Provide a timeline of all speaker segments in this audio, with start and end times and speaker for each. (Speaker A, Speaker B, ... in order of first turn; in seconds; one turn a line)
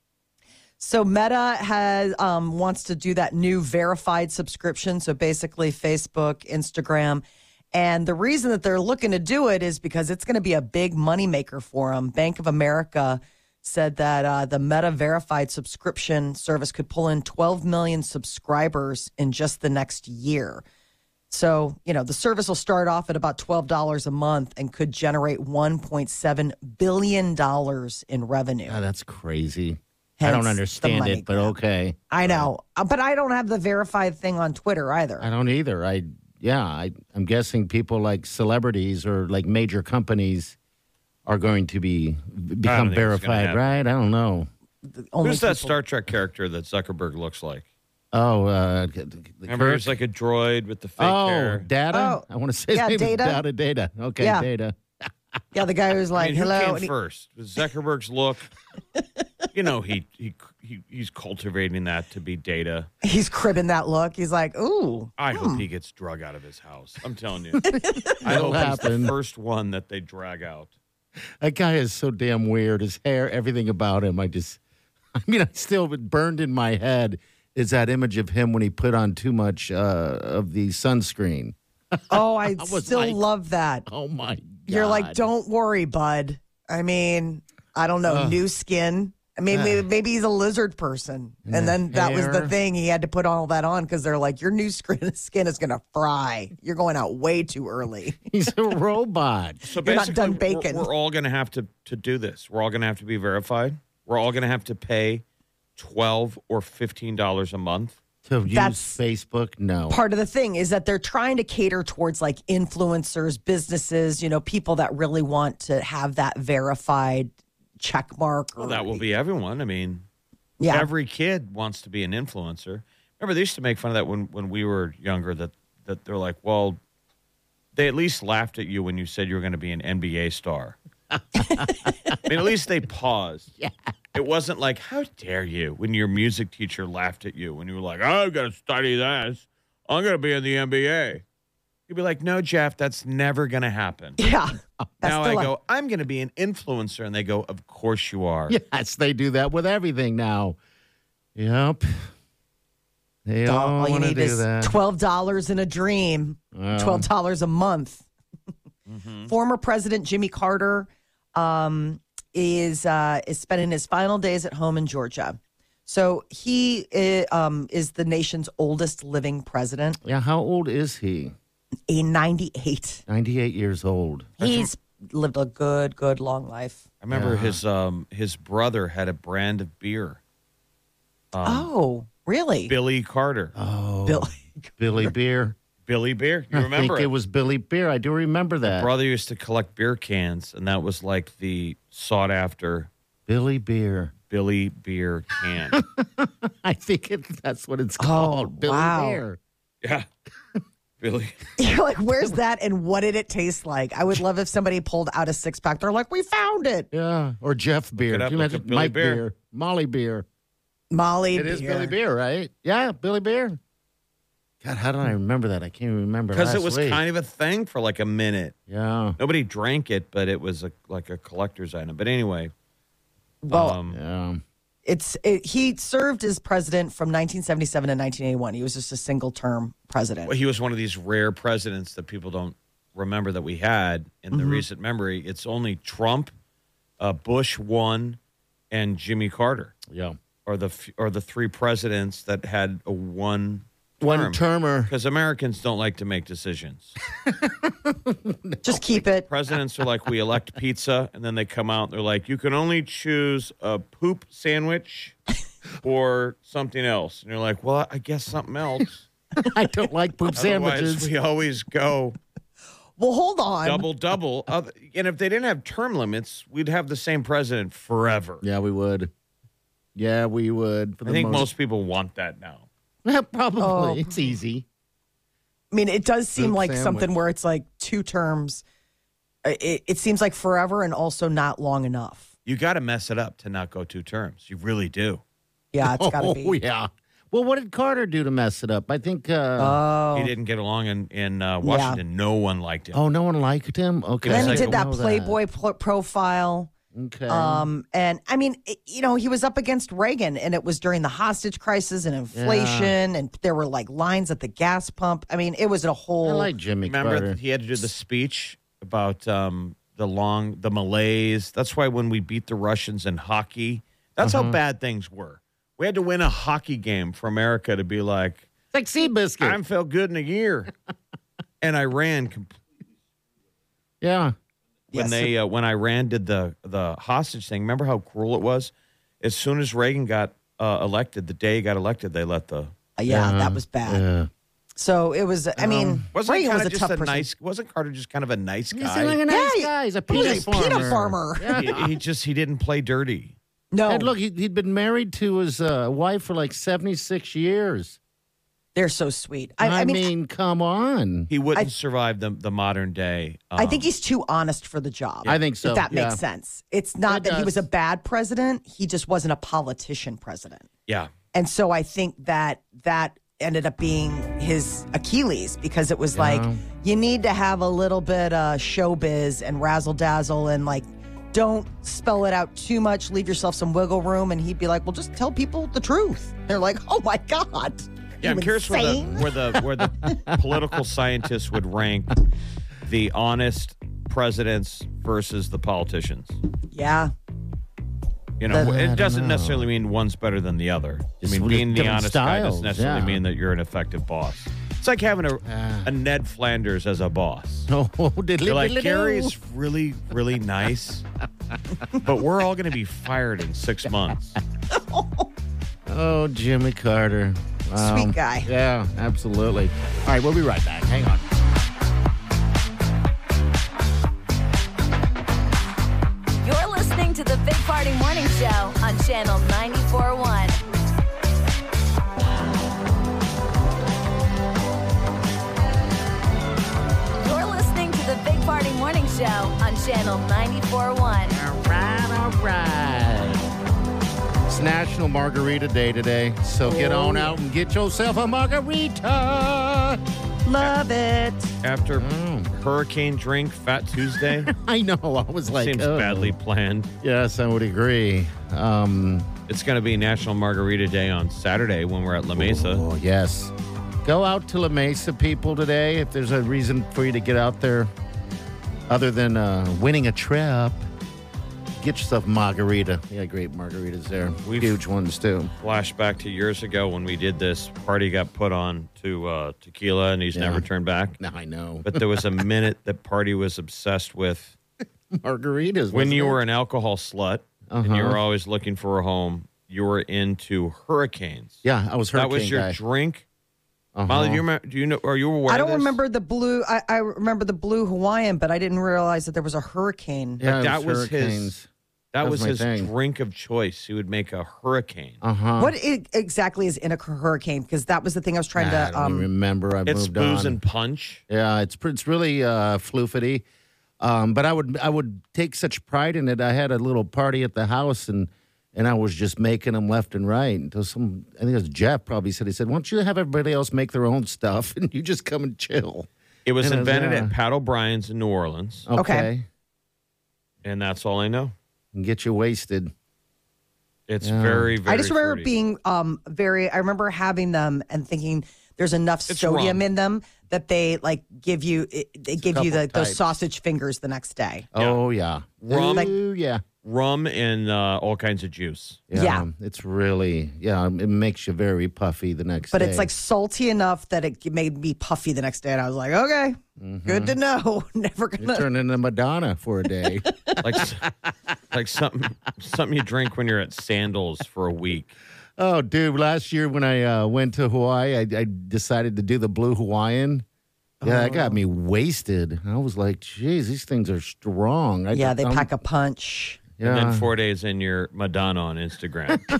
Speaker A: 0.8-20.6
Speaker A: 21.3-28.8
Speaker B: 28.7-32.5
Speaker A: 30.2-31.5
Speaker A: 32.1-35.3
Speaker B: 35.2-40.5
Speaker B: 41.2-44.5
Speaker C: 42.6-43.7
Speaker A: 44.8-45.7
Speaker C: 45.2-47.6
Speaker B: 48.1-49.9
Speaker C: 49.5-51.7
Speaker B: 51.0-55.1
Speaker A: 51.9-53.4
Speaker A: 54.2-54.5
Speaker A: 55.5-56.9
Speaker C: 56.1-58.5
Speaker C: 59.5-62.9
Speaker A: 63.0-65.6
Speaker C: 65.2-67.7
Speaker A: 67.6-68.1
Speaker B: 67.9-69.1
Speaker C: 68.2-70.7
Speaker B: 71.4-74.6
Speaker B: 75.2-83.2
Speaker A: 82.1-83.8
Speaker B: 83.8-85.3
Speaker A: 84.7-98.2
Speaker B: 88.0-88.4
Speaker B: 89.5-89.8
Speaker B: 91.5-92.5
Speaker B: 98.3-99.6
Speaker C: 99.7-105.2
Speaker A: 99.8-100.9
Speaker C: 105.8-108.0
Speaker B: 108.2-110.0
Speaker A: 108.5-109.0
Speaker A: 109.9-119.0
Speaker C: 118.6-120.0
Speaker A: 120.6-120.9
Speaker C: 120.7-126.8
Speaker C: 127.7-130.8
Speaker B: 131.1-132.2
Speaker C: 132.2-133.5
Speaker B: 133.6-133.9
Speaker C: 134.1-141.2
Speaker C: 141.9-144.2
Speaker A: 144.2-145.5
Speaker C: 145.0-148.6
Speaker B: 148.5-150.6
Speaker B: 151.3-152.0
Speaker B: 153.2-154.7
Speaker A: 153.4-158.0
Speaker B: 156.5-157.1
Speaker C: 158.9-159.3
Speaker A: 159.3-170.0
Speaker B: 170.0-171.3
Speaker A: 171.9-173.0
Speaker B: 173.1-174.4
Speaker A: 174.4-176.8
Speaker C: 174.4-174.7
Speaker C: 177.0-180.2
Speaker B: 177.1-177.6
Speaker C: 181.3-181.7
Speaker A: 181.4-182.7
Speaker C: 182.7-183.5
Speaker B: 183.5-185.6
Speaker A: 184.1-185.1
Speaker C: 185.8-187.1
Speaker B: 186.5-188.9
Speaker C: 188.7-192.9
Speaker B: 193.3-194.1
Speaker C: 194.3-195.8
Speaker B: 195.7-199.4
Speaker A: 198.0-199.2
Speaker C: 201.0-201.4
Speaker A: 201.6-206.9
Speaker B: 206.9-210.2
Speaker C: 208.0-209.2
Speaker A: 210.9-211.9
Speaker B: 211.3-213.6
Speaker B: 214.6-217.0
Speaker C: 216.3-218.5
Speaker B: 218.7-219.2
Speaker C: 219.2-222.5
Speaker A: 223.4-223.8
Speaker C: 223.5-224.0
Speaker B: 223.9-224.4
Speaker A: 224.8-230.3
Speaker C: 230.2-236.3
Speaker A: 234.3-234.6
Speaker C: 237.0-238.2
Speaker C: 238.7-239.7
Speaker B: 239.9-240.2
Speaker C: 240.4-246.9
Speaker B: 244.0-244.9
Speaker B: 247.2-249.0
Speaker A: 248.6-249.2
Speaker C: 249.3-255.2
Speaker C: 255.8-259.0
Speaker B: 259.4-261.1
Speaker C: 260.3-262.2
Speaker A: 263.0-263.9
Speaker C: 263.6-268.4
Speaker B: 268.4-269.1
Speaker B: 269.9-271.5
Speaker C: 271.1-272.7
Speaker B: 273.0-274.6
Speaker A: 273.6-274.3
Speaker A: 275.7-278.6
Speaker B: 276.4-277.1
Speaker A: 279.4-282.3
Speaker C: 282.4-285.2
Speaker A: 285.7-286.6
Speaker B: 285.8-289.8
Speaker A: 289.6-290.3
Speaker C: 290.1-293.0
Speaker A: 291.6-292.0
Speaker B: 292.9-295.4
Speaker C: 294.2-294.8
Speaker A: 294.3-296.7
Speaker B: 296.9-297.7
Speaker A: 297.3-306.5
Speaker B: 302.3-302.9
Speaker B: 306.2-307.4
Speaker C: 306.8-318.5
Speaker B: 314.2-314.6
Speaker B: 318.7-319.6
Speaker C: 319.4-320.7
Speaker C: 321.6-322.6
Speaker B: 324.0-324.3
Speaker A: 324.9-325.3
Speaker C: 324.9-332.7
Speaker A: 333.0-334.0
Speaker B: 333.1-334.3
Speaker A: 334.8-337.2
Speaker B: 335.6-336.1
Speaker C: 336.1-339.2
Speaker B: 338.7-341.9
Speaker A: 339.3-341.6
Speaker C: 340.6-340.9
Speaker C: 341.6-343.3
Speaker A: 343.7-344.1
Speaker B: 343.9-348.0
Speaker A: 348.7-350.1
Speaker B: 349.6-351.3
Speaker C: 351.3-353.9
Speaker A: 353.6-360.6
Speaker B: 355.3-356.2
Speaker B: 357.1-357.6
Speaker A: 361.3-379.3
Speaker B: 366.1-366.6
Speaker C: 378.2-382.2
Speaker B: 380.0-380.4
Speaker C: 382.8-386.4
Speaker A: 386.7-387.1
Speaker C: 388.4-397.7
Speaker B: 388.5-389.7
Speaker B: 391.2-393.2
Speaker B: 395.4-395.9
Speaker B: 397.7-399.3
Speaker C: 398.4-401.0
Speaker C: 401.9-404.4
Speaker A: 404.7-405.2
Speaker B: 405.9-411.2
Speaker A: 407.8-408.5
Speaker D: 416.4-420.6
Speaker D: 427.2-431.4
Speaker B: 431.3-433.4
Speaker B: 434.5-440.0
Speaker A: 436.6-437.4
Speaker A: 440.4-441.5
Speaker C: 441.6-444.5
Speaker B: 442.0-442.5
Speaker B: 444.4-446.3
Speaker C: 445.5-446.9
Speaker B: 447.0-449.3
Speaker C: 449.5-452.8
Speaker B: 452.4-453.5
Speaker B: 454.0-457.9
Speaker B: 458.9-460.8
Speaker B: 461.8-465.5
Speaker C: 464.4-464.8
Speaker C: 465.6-471.2
Speaker B: 470.3-470.6
Speaker B: 471.2-472.4
Speaker C: 471.8-474.5
Speaker B: 475.1-476.4
Speaker C: 475.9-481.6
Speaker B: 477.7-478.2
Speaker B: 481.6-482.8
Speaker C: 482.1-483.2
Speaker B: 483.9-484.4
Speaker C: 484.1-486.0
Speaker A: 485.5-490.4
Speaker B: 490.4-491.7
Speaker C: 490.4-491.5
Speaker C: 492.1-495.2
Speaker B: 492.2-492.9
Speaker B: 495.2-495.7
Speaker A: 495.6-499.3
Speaker B: 498.5-500.6
Speaker C: 499.9-501.2
Speaker B: 501.3-503.4
Speaker B: 504.0-516.1
Speaker C: 516.5-518.9
Speaker B: 516.6-517.3
Speaker B: 518.9-519.5
Speaker A: 519.0-519.3
Speaker C: 520.6-521.5
Speaker B: 521.9-522.9
Speaker C: 524.1-525.5
Speaker B: 524.2-524.7
Speaker A: 524.9-534.7
Speaker C: 529.3-529.8
Speaker B: 532.4-533.2
Speaker B: 534.7-536.6
Speaker C: 534.8-535.0
Speaker C: 535.6-536.1
Speaker C: 536.8-539.0
Speaker B: 539.1-543.1
Speaker A: 539.1-539.5
Speaker A: 542.7-548.6
Speaker B: 546.8-547.4
Speaker B: 548.4-550.2
Speaker A: 550.3-550.6
Speaker C: 550.6-551.0
Speaker C: 551.7-555.1
Speaker B: 555.6-560.4
Speaker A: 561.0-561.6
Speaker B: 561.0-565.7
Speaker A: 565.1-566.6
Speaker B: 566.8-567.3
Speaker C: 566.8-569.5